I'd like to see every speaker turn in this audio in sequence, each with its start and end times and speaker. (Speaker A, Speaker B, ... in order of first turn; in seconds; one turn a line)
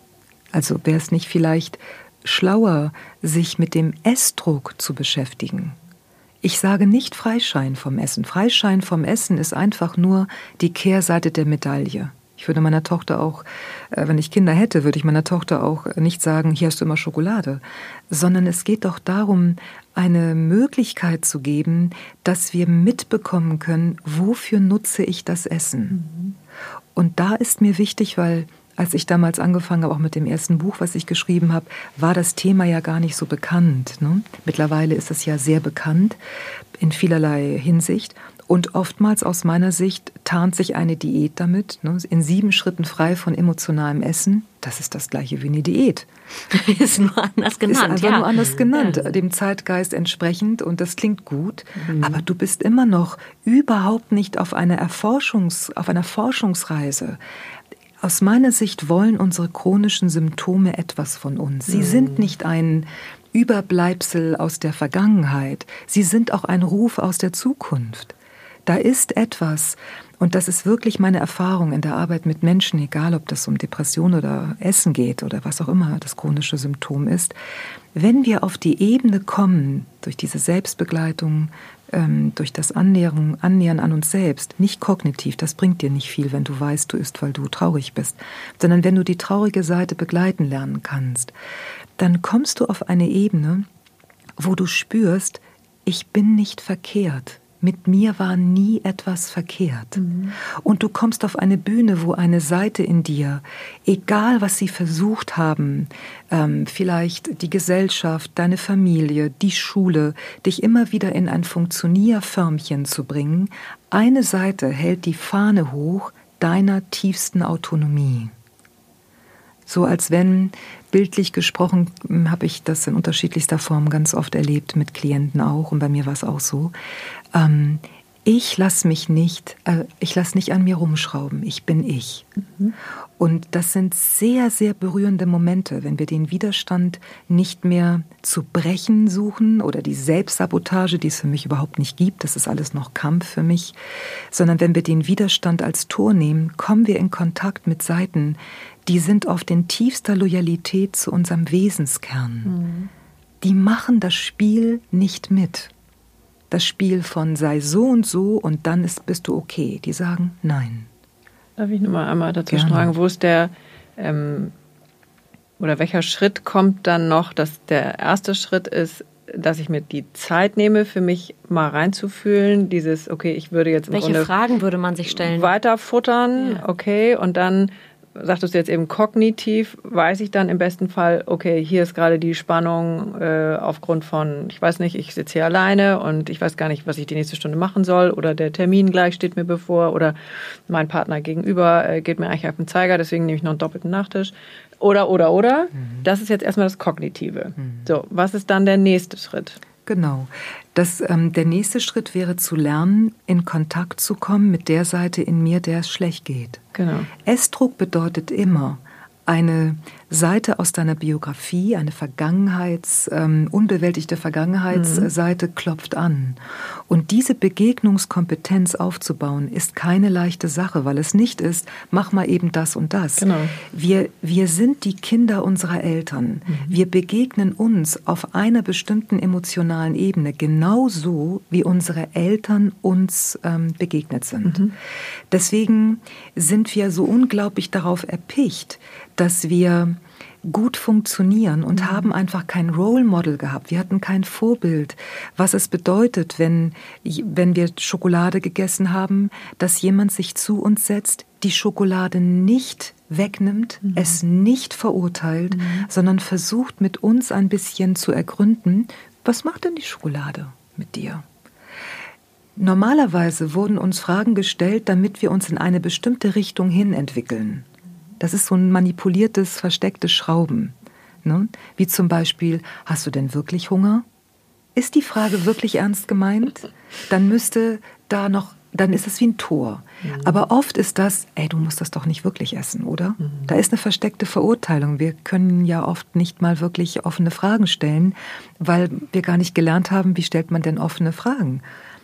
Speaker A: 0.5-5.8
Speaker A: 6.4-26.0
Speaker B: 25.9-26.3
Speaker A: 27.0-36.2
Speaker A: 36.8-46.1
Speaker C: 46.5-49.1
Speaker A: 47.7-57.2
Speaker B: 51.8-52.1
Speaker C: 51.9-52.2
Speaker A: 58.0-68.2
Speaker B: 61.7-62.2
Speaker A: 68.7-77.3
Speaker A: 78.0-91.3
Speaker A: 92.0-93.7
Speaker A: 94.4-118.3
Speaker B: 100.0-100.3
Speaker A: 119.7-126.7
Speaker A: 127.3-132.3
Speaker A: 133.2-143.8
Speaker A: 144.3-152.6
Speaker B: 152.4-152.9
Speaker A: 153.4-155.7
Speaker A: 156.5-160.9
Speaker B: 161.6-164.5
Speaker A: 162.5-162.9
Speaker B: 165.6-174.3
Speaker C: 173.9-175.5
Speaker B: 175.1-199.6
Speaker A: 195.8-196.0
Speaker A: 197.6-197.9
Speaker A: 199.9-206.6
Speaker B: 206.8-207.1
Speaker A: 207.2-234.7
Speaker B: 214.7-215.1
Speaker B: 223.2-223.5
Speaker B: 226.5-226.8
Speaker B: 234.5-234.7
Speaker A: 235.3-261.3
Speaker B: 241.8-242.1
Speaker B: 253.8-254.2
Speaker B: 255.5-255.9
Speaker A: 262.6-267.7
Speaker A: 268.2-274.1
Speaker A: 274.8-291.6
Speaker B: 280.0-280.3